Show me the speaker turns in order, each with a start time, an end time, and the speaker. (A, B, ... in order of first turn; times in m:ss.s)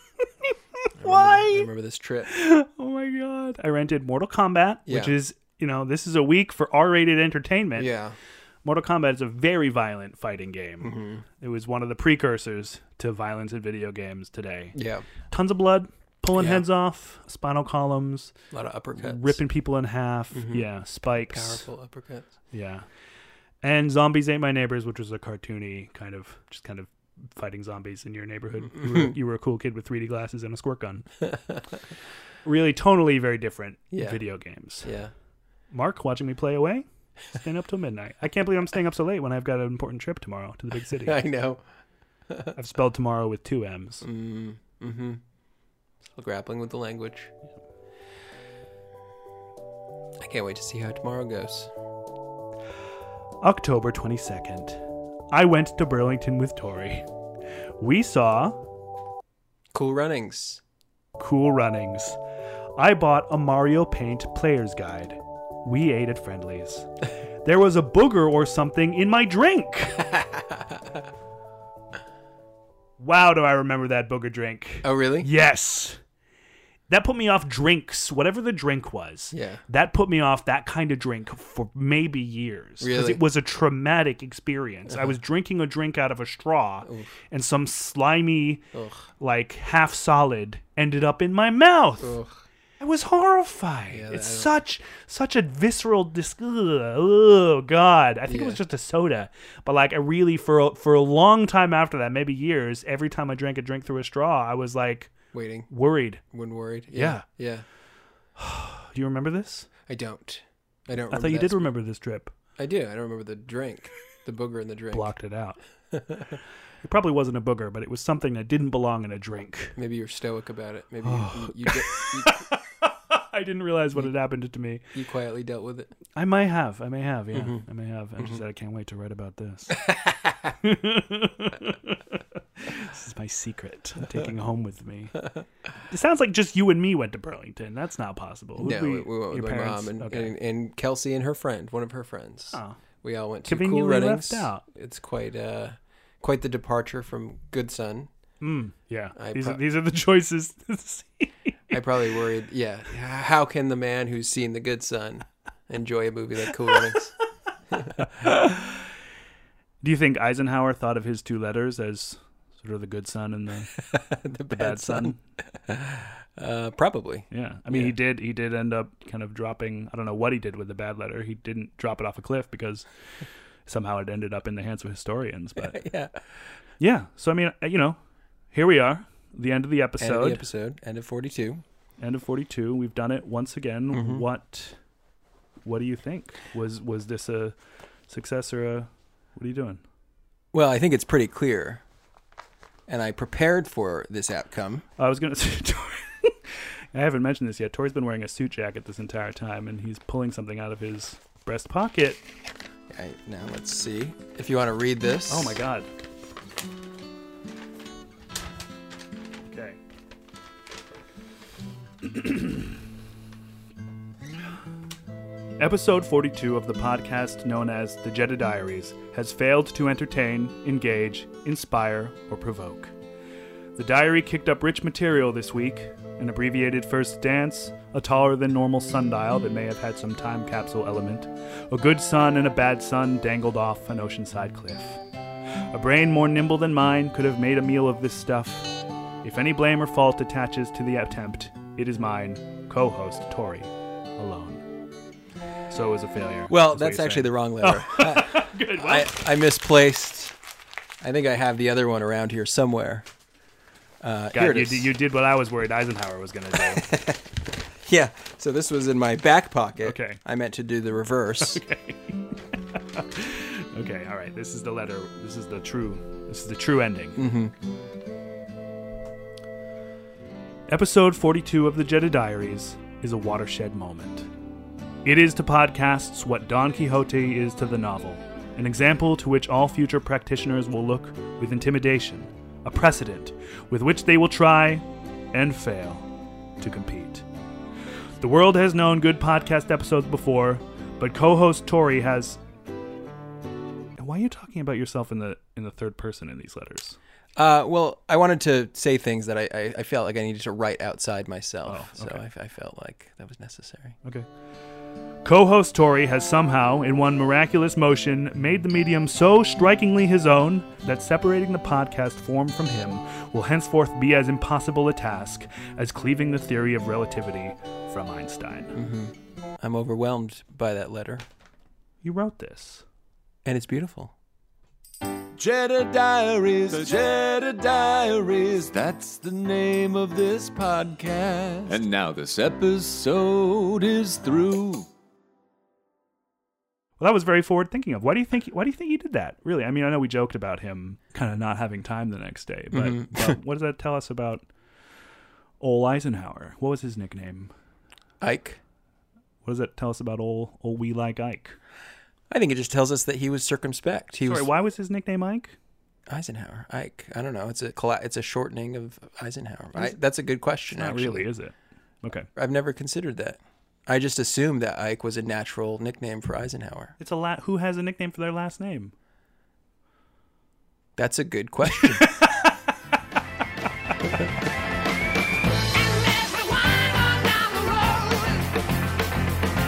0:00.2-0:01.7 A
0:01.0-0:02.3 B
0:02.2-0:07.9 A
0:04.9-0:05.1 B
0:07.7-0:08.2 B
0:08.6-0:14.8 A
0:10.8-0:11.2 B
0:14.7-0:15.0 B
0:15.3-0:18.4 A
0:16.3-0:16.6 B
0:18.5-0:19.4 B
0:19.0-0:21.7 A
0:20.3-0:22.3 B
0:22.5-0:22.8 A
0:23.6-0:31.1 A
0:31.3-0:31.6 B
0:32.4-0:34.9 A
0:33.9-0:34.2 B
0:34.8-0:35.1 B
0:35.7-0:41.2 A
0:41.0-0:41.6 B
0:42.3-0:42.5 B
0:42.5-0:44.1 A
0:44.0-0:45.2 B
0:46.0-0:47.3 B
0:50.2-0:51.7 B
0:53.4-0:57.1 A
0:57.8-0:58.6 A
0:59.7-1:00.6 B
1:01.2-1:02.2 A
1:02.8-1:06.9 A
1:07.4-1:10.1 A
1:10.1-1:11.0 B
1:13.0-1:16.0 A
1:14.8-1:15.3 B
1:16.9-1:28.6 A
1:19.3-1:19.6 B
1:22.8-1:23.2 B
1:26.8-1:27.1 B
1:28.7-1:29.0 B
1:29.2-1:32.2 A
1:32.0-1:32.3 B
1:32.8-1:45.1 A
1:33.9-1:34.5 B
1:38.2-1:38.6 B
1:45.3-1:45.7 B
1:45.7-1:46.2 A
1:46.3-1:47.6 B
1:46.9-1:47.2 A
1:48.4-1:49.7 A
1:49.8-1:51.6 B
1:51.1-1:52.3 A
1:52.6-1:55.1 B
1:54.9-1:55.6 A
1:55.9-1:56.4 B
1:56.8-1:59.8 A
1:59.8-2:02.4 B
2:01.0-2:04.9 A
2:04.9-2:05.9 B
2:06.2-2:09.8 A
2:07.3-2:07.6 B
2:10.6-2:15.2 A
2:15.9-2:20.3 A
2:18.6-2:28.1 B
2:22.5-2:22.8 A
2:23.4-2:24.6 A
2:28.4-2:31.8 A
2:29.2-2:29.6 B
2:31.7-2:37.1 B
2:37.7-2:38.3 B
2:38.0-2:38.8 A
2:39.8-2:43.7 A
2:43.8-2:47.9 B
2:44.5-2:45.2 A
2:47.3-2:52.8 A
2:53.6-2:55.8 A
2:55.6-2:56.2 B
2:56.8-2:58.0 A
2:58.5-3:00.5 A
3:00.0-3:01.6 B
3:02.0-3:04.8 A
3:03.9-3:04.2 B
3:05.6-3:07.5 A
3:08.1-3:09.8 A
3:10.5-3:11.8 B
3:12.9-3:14.8 B
3:15.0-3:22.2 A
3:22.9-3:25.6 B
3:25.3-3:25.9 A
3:29.5-3:29.8 A
3:32.0-3:32.7 A
3:35.6-3:42.9 A
3:43.8-3:55.0 A
3:55.7-3:58.7 A
3:59.2-4:04.6 A
4:05.7-4:09.2 A
4:06.5-4:10.3 B
4:11.0-4:13.0 B
4:14.0-4:14.9 B
4:14.3-4:16.9 A
4:16.6-4:17.3 B
4:17.8-4:21.6 B
4:19.8-4:20.2 A
4:21.4-4:22.2 A
4:22.7-4:27.2 A
4:27.1-4:27.5 B
4:30.7-4:34.3 A
4:35.0-4:46.1 A
4:46.6-4:47.2 A
4:48.2-4:52.4 A
4:54.0-4:57.0 A
4:57.4-5:04.0 B
5:01.6-5:02.2 A
5:05.2-5:18.8 A
5:18.7-5:21.2 B
5:22.0-5:22.8 A
5:23.4-5:24.1 B
5:25.4-5:34.9 C
5:37.0-5:44.5 A
5:42.7-5:43.3 B
5:45.6-5:47.5 A
5:48.2-5:48.6 B
5:49.4-5:51.6 A
5:52.3-5:54.5 B
5:54.2-5:55.6 A
5:56.1-6:01.3 B
6:00.7-6:02.3 A
6:02.3-6:06.9 B
6:07.0-6:08.9 A
6:11.0-6:12.1 B
6:16.2-6:16.6 A
6:17.9-6:18.2 A